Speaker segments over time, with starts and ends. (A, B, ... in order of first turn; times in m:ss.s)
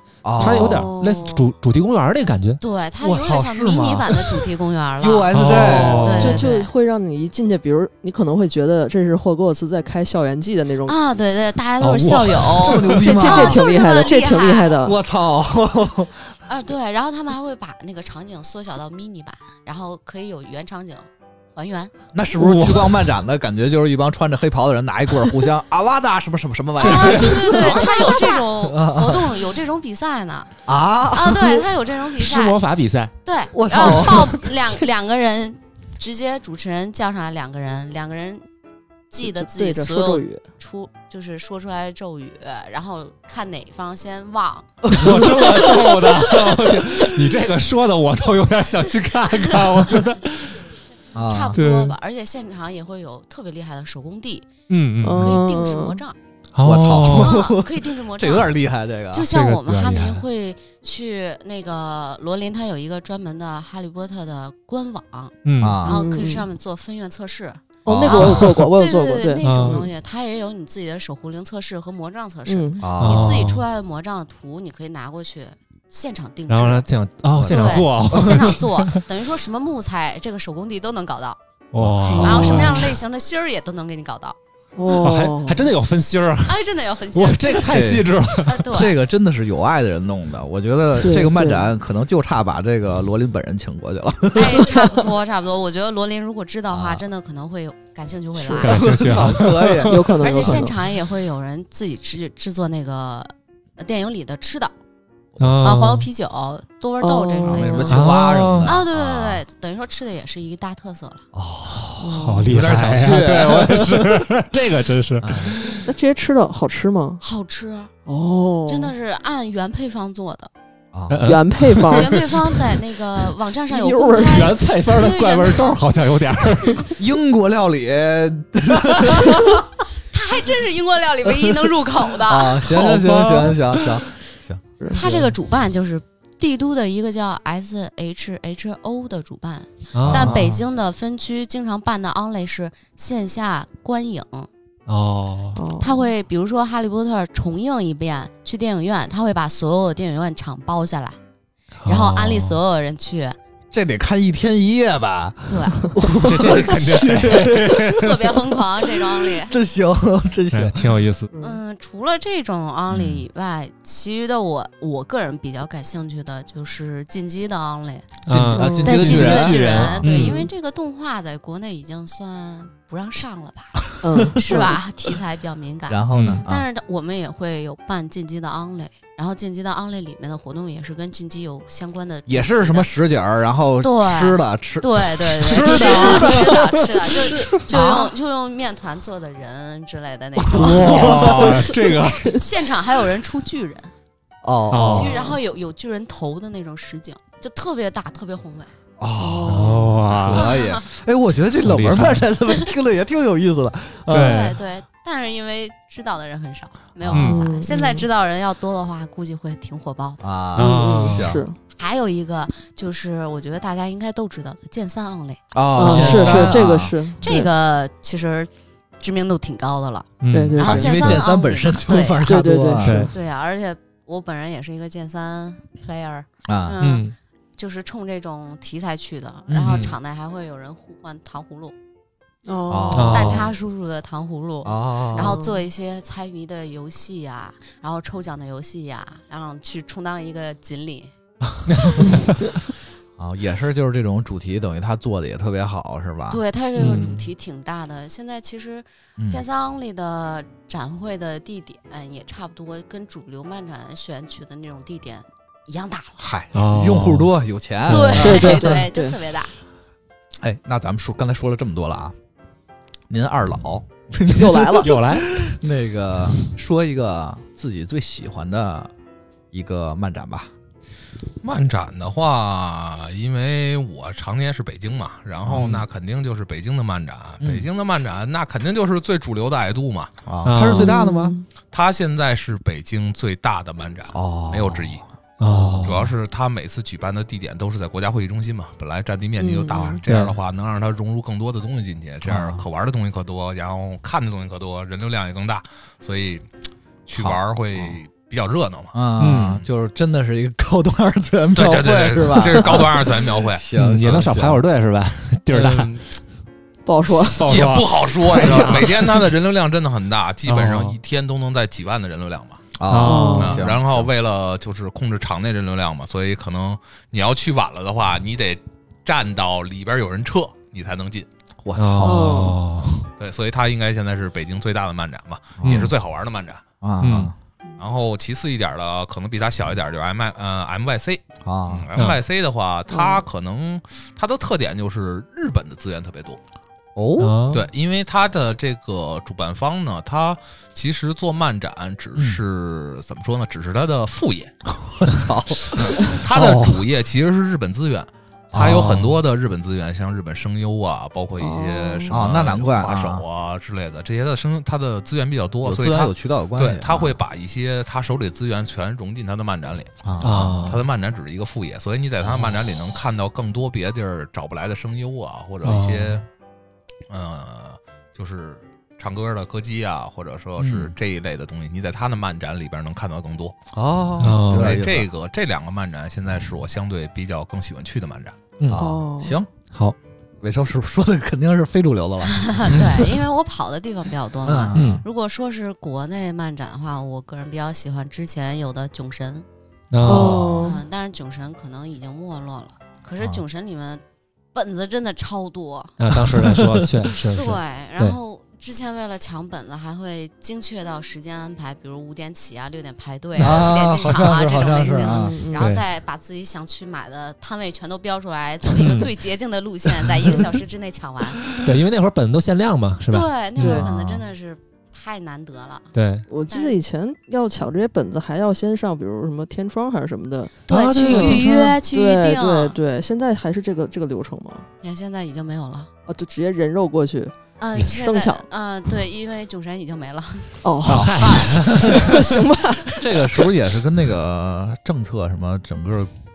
0:00.2-0:00.9 A
0:00.4-0:02.6 B
0:00.6-0:01.2 C
0:00.9-0:01.4 D
0:02.6-0:06.7 D
0:03.0-0:04.5 A
0:05.0-0:06.1 A
0:05.3-0:06.4 B
0:05.8-0:11.0 C
0:10.8-0:14.8 D
0:11.8-0:12.9 B
0:12.6-0:13.7 A
0:12.8-0:15.0 C
0:14.8-0:16.4 A
0:16.5-0:21.9 D
0:22.1-0:29.4 A
0:22.4-0:23.0 B
0:26.8-0:30.5 D
0:26.8-0:28.0 B
0:30.7-0:31.7 A
0:31.1-0:32.6 D
0:32.2-0:33.1 B
0:33.2-0:38.4 D
0:33.5-0:34.4 A
0:33.9-0:34.2 B
0:39.1-0:45.9 D
0:39.4-0:40.4 C
0:44.8-0:45.9 A
0:44.9-0:50.5 B
0:51.1-0:51.6 A
0:51.3-0:54.5 D
0:54.7-0:55.4 B
0:55.0-0:56.0 C
0:55.2-0:56.2 D
0:56.6-0:57.4 B
0:56.6-0:59.3 A
0:57.1-0:58.5 D
0:59.1-1:16.9 D
0:59.3-1:00.2 B
1:05.4-1:05.8 B
1:05.6-1:06.0 A
1:05.8-1:06.5 C
1:07.8-1:09.7 C
1:07.9-1:08.6 A
1:09.4-1:09.9 B
1:12.5-1:12.9 C
1:12.8-1:13.3 A
1:13.0-1:13.6 B
1:16.5-1:19.0 B
1:17.4-1:18.4 A
1:17.4-1:21.4 D
1:21.7-1:23.0 B
1:21.8-1:22.3 A
1:22.0-1:22.8 C
1:22.1-1:24.4 D
1:24.8-1:25.7 C
1:24.9-1:26.6 B
1:26.4-1:27.8 D
1:27.1-1:28.7 B
1:27.6-1:35.1 A
1:28.4-1:29.0 D
1:31.0-1:31.7 C
1:34.3-1:39.2 D
1:36.7-1:37.0 A
1:38.4-1:39.2 C
1:38.6-1:39.9 B
1:38.7-1:40.7 A
1:39.8-1:40.8 C
1:40.2-1:44.7 D
1:45.4-1:45.6 A
1:45.4-1:46.1 B
1:45.6-1:51.3 D
1:47.0-1:48.1 C
1:47.4-1:49.4 A
1:47.9-1:48.8 B
1:51.3-1:54.3 A
1:52.0-1:52.6 C
1:52.1-1:55.9 B
1:55.2-1:55.6 A
1:55.8-1:57.2 C
1:57.2-1:57.9 D
1:58.1-1:58.9 C
1:58.7-2:00.5 D
2:00.9-2:01.2 A
2:01.1-2:02.7 B
2:01.3-2:02.1 C
2:01.9-2:05.8 D
2:03.7-2:04.6 C
2:04.2-2:07.0 B
2:07.0-2:09.6 A
2:10.1-2:12.7 D
2:12.2-2:14.6 A
2:12.9-2:13.6 B
2:14.8-2:15.3 C
2:14.9-2:24.5 D
2:19.9-2:20.4 B
2:20.1-2:20.6 A
2:24.9-2:25.6 B
2:25.6-2:26.0 C
2:25.8-2:31.2 D
2:31.8-2:32.6 B
2:31.9-2:33.4 D
2:33.7-2:41.0 A
2:35.5-2:35.9 D
2:36.2-2:38.1 B
2:37.5-2:39.5 D
2:40.5-2:41.3 B
2:41.3-2:41.6 C
2:41.4-2:48.1 D
2:42.9-2:43.2 A
2:48.3-2:50.4 B
2:48.3-2:50.3 A
2:48.5-2:49.2 C
2:48.8-3:02.9 D
2:50.1-2:50.5 C
2:54.0-2:54.8 C
2:55.9-2:56.6 A
2:56.1-2:56.4 B
3:02.3-3:07.8 A
3:03.8-3:11.6 D
3:05.7-3:06.5 C
3:05.7-3:06.4 B
3:07.7-3:08.1 C
3:10.4-3:12.4 B
3:10.8-3:12.4 C
3:10.8-3:11.7 A
3:12.2-3:13.9 D
3:14.4-3:15.3 A
3:14.7-3:15.2 B
3:14.9-3:18.7 D
3:19.0-3:24.5 A
3:19.2-3:20.0 C
3:19.5-3:20.5 B
3:20.3-3:20.8 D
3:21.6-3:22.3 B
3:24.1-3:24.6 B
3:24.1-3:30.2 D
3:27.1-3:27.3 A
3:27.1-3:27.4 B
3:27.2-3:28.1 C
3:30.2-3:31.5 A
3:30.6-3:31.3 B
3:30.6-3:31.6 C
3:31.7-3:36.7 D
3:35.5-3:37.1 A
3:35.8-3:37.5 C
3:35.9-3:36.3 B
3:37.2-3:42.3 D
3:40.2-3:40.6 B
3:40.3-3:41.2 C
3:40.6-3:43.1 A
3:42.2-3:43.1 C
3:42.8-3:43.1 B
3:43.1-3:51.8 D
3:46.4-3:46.8 A
3:46.8-3:47.1 B
3:49.5-3:49.9 A
3:49.7-3:50.0 B
3:52.5-3:53.3 C
3:52.7-3:53.5 A
3:52.9-3:53.5 B
3:53.1-4:01.1 D
3:54.6-3:55.4 A
3:55.1-3:55.6 C
4:01.7-4:02.4 B
4:03.2-4:06.4 A
4:06.3-4:16.2 D
4:06.8-4:07.3 B
4:09.2-4:09.4 A
4:16.2-4:18.8 A
4:16.5-4:17.3 B
4:17.8-4:19.5 D
4:17.9-4:19.2 C
4:20.4-4:22.2 A
4:23.1-4:28.9 A
4:24.3-4:25.0 C
4:24.8-4:25.5 B
4:29.5-4:30.5 A
4:31.4-4:40.1 E
4:35.4-4:35.8 A
4:35.6-4:35.8 B
4:37.4-4:37.7 A
4:40.3-4:41.4 A
4:40.4-4:40.9 B
4:40.6-4:41.5 C
4:41.7-4:56.5 E
4:44.1-4:45.0 A
4:45.4-4:46.0 B
4:49.4-4:50.0 C
4:50.1-4:50.4 B
4:52.2-4:52.6 A
4:57.1-4:59.0 E
4:57.2-4:57.9 A
4:58.9-5:04.6 A
4:59.2-4:59.6 B
5:01.6-5:03.6 E
5:03.8-5:06.0 B
5:05.5-5:06.1 E
5:06.9-5:07.6 C
5:07.2-5:09.3 B
5:07.4-5:12.7 E
5:10.5-5:11.0 B
5:12.8-5:14.1 A
5:12.9-5:13.6 B
5:13.0-5:13.6 C
5:13.4-5:21.3 E
5:21.6-5:22.5 A
5:21.8-5:23.1 B
5:22.0-5:22.6 C
5:23.2-5:26.6 E
5:25.6-5:25.9 A
5:25.7-5:25.9 B
5:26.8-5:27.3 A
5:27.0-5:27.3 B
5:27.8-5:36.4 E
5:31.4-5:31.9 A
5:32.9-5:33.3 C
5:37.0-5:37.4 A
5:37.2-5:37.7 B
5:37.5-5:44.5 E
5:42.2-5:42.4 A
5:44.8-5:46.8 A
5:45.7-6:06.2 E
5:48.5-5:48.9 A
5:48.6-5:49.1 B
5:51.4-5:52.2 C
5:52.1-5:53.2 A
5:55.6-5:57.2 A
6:00.0-6:00.6 A
6:00.2-6:00.8 B
6:05.6-6:06.2 B
6:07.1-6:13.6 E
6:10.6-6:10.9 A
6:13.7-6:15.1 A
6:14.2-6:14.7 B
6:14.4-6:18.5 E
6:18.6-6:18.9 B
6:18.7-6:19.5 A
6:18.8-6:19.4 C
6:19.7-6:20.0 B
6:20.4-6:23.0 A
6:22.2-6:29.5 D
6:24.4-6:25.0 A
6:24.8-6:25.0 B
6:29.9-6:30.8 B
6:30.0-6:30.8 C
6:30.1-6:34.0 D
6:34.5-6:35.9 D
6:36.0-6:38.2 B
6:36.3-6:36.9 A
6:37.2-6:51.4 D
6:43.4-6:45.4 A
6:45.0-6:45.7 C
6:45.5-6:45.8 B
6:48.7-6:49.1 B
6:50.0-6:50.5 B
6:51.6-6:53.8 B
6:53.1-6:55.9 D
6:53.6-6:54.3 A
6:56.0-6:56.3 B
6:56.3-7:04.7 C
6:56.4-6:56.8 D
7:00.7-7:01.8 B
7:00.7-7:02.8 D
7:04.8-7:05.9 D
7:06.1-7:08.5 C
7:07.6-7:10.6 D
7:10.6-7:13.5 C
7:10.8-7:12.3 B
7:10.9-7:12.2 A
7:13.0-7:16.1 A